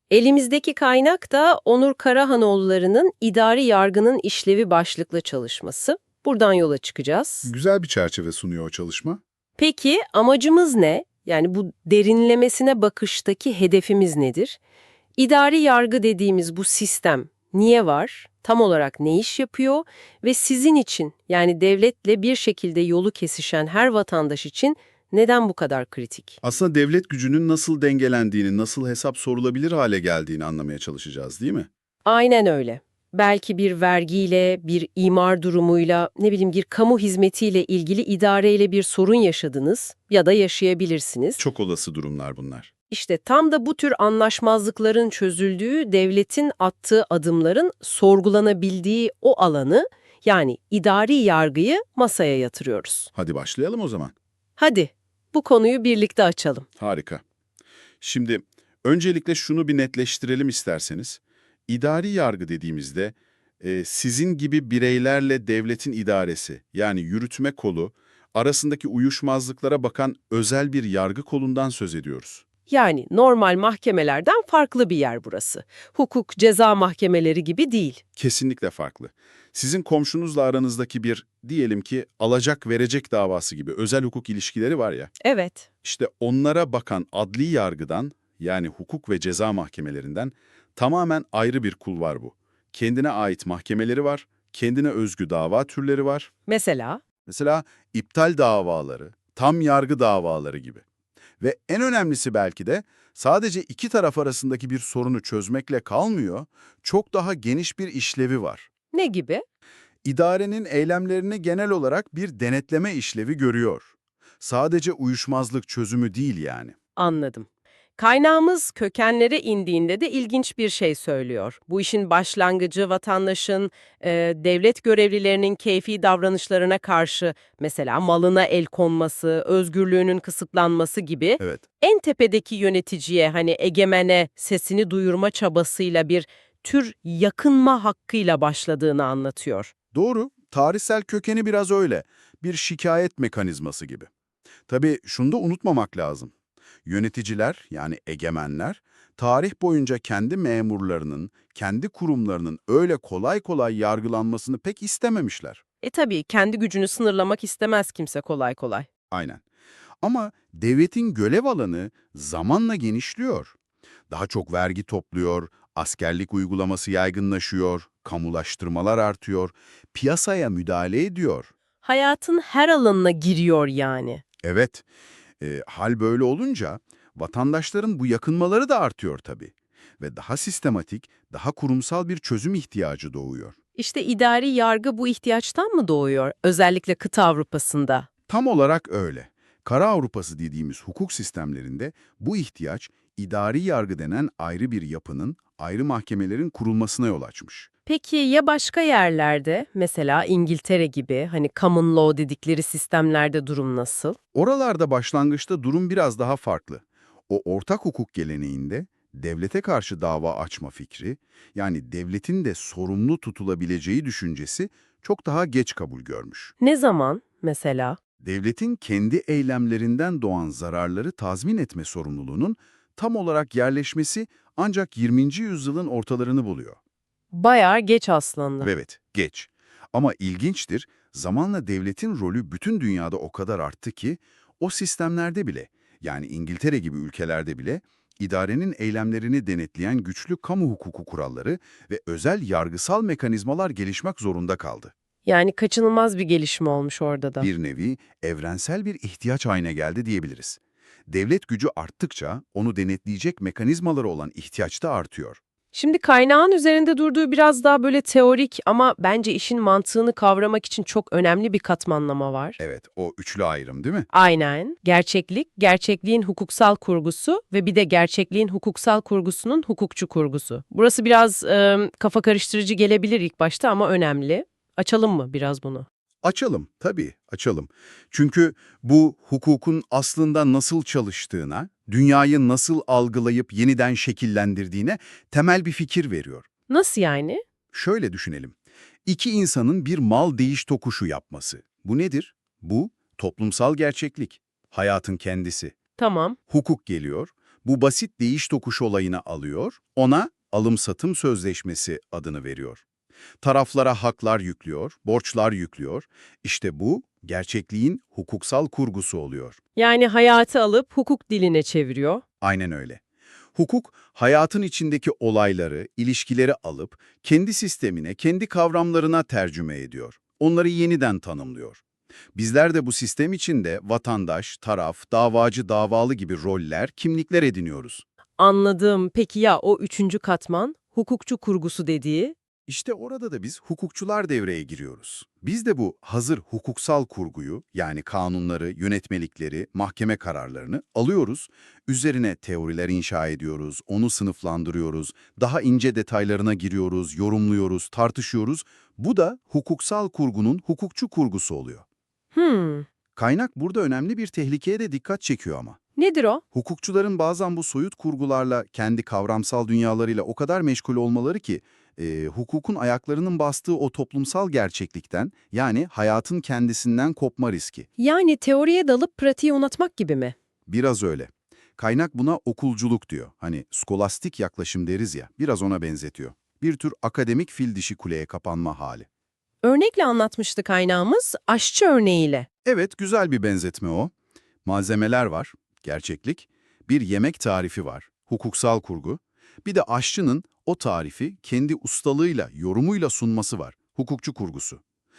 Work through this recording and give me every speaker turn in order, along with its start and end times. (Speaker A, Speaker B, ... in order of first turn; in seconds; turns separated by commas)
Speaker A: 0.1-7.5, Speaker B: 7.4-9.2, Speaker A: 9.6-14.6, Speaker A: 15.2-26.4, Speaker B: 26.4-31.7, Speaker A: 32.0-41.4, Speaker B: 41.4-42.7, Speaker A: 42.9-53.1, Speaker B: 53.1-54.1, Speaker A: 54.6-56.7, Speaker B: 56.8-57.2, Speaker B: 58.0-72.4, Speaker A: 72.7-78.0, Speaker B: 78.2-85.1, Speaker A: 85.2-85.7, Speaker B: 85.8-96.3, Speaker A: 96.5-97.0, Speaker B: 97.2-100.8, Speaker B: 101.4-108.7, Speaker A: 108.9-109.4, Speaker B: 110.0-116.7, Speaker A: 117.0-139.7, Speaker B: 139.9-144.1, Speaker B: 144.7-146.3, Speaker B: 146.8-155.6, Speaker A: 155.8-158.9, Speaker B: 159.1-159.4, Speaker B: 160.0-163.6, Speaker B: 164.1-171.5, Speaker A: 171.8-174.2, Speaker B: 174.4-174.8, Speaker B: 175.4-183.6, Speaker A: 183.8-188.1, Speaker B: 188.3-197.7, Speaker A: 197.9-204.2, Speaker B: 204.3-216.5, Speaker A: 216.6-218.0, Speaker B: 218.2-226.8, Speaker A: 227.3-228.7, Speaker B: 228.6-244.9, Speaker A: 245.2-247.5, Speaker B: 247.4-255.4, Speaker A: 255.7-262.6, Speaker B: 262.6-264.1, Speaker A: 264.1-275.9, Speaker B: 276.2-286.5, Speaker A: 286.7-287.4, Speaker B: 287.7-288.5, Speaker B: 289.1-295.8, Speaker A: 296.0-296.4, Speaker B: 296.5-302.8, Speaker B: 303.4-309.6, Speaker A: 309.8-312.2, Speaker B: 312.4-313.0, Speaker B: 313.6-321.8, Speaker B: 322.4-328.1, Speaker A: 328.4-332.4, Speaker B: 332.7-351.8, Speaker A: 352.3-352.9, Speaker B: 353.2-355.8, Speaker A: 356.0-356.4, Speaker B: 356.5-367.9, Speaker A: 368.0-370.4, Speaker B: 370.7-379.1, Speaker A: 379.6-382.5, Speaker B: 382.6-384.1, Speaker B: 384.6-394.8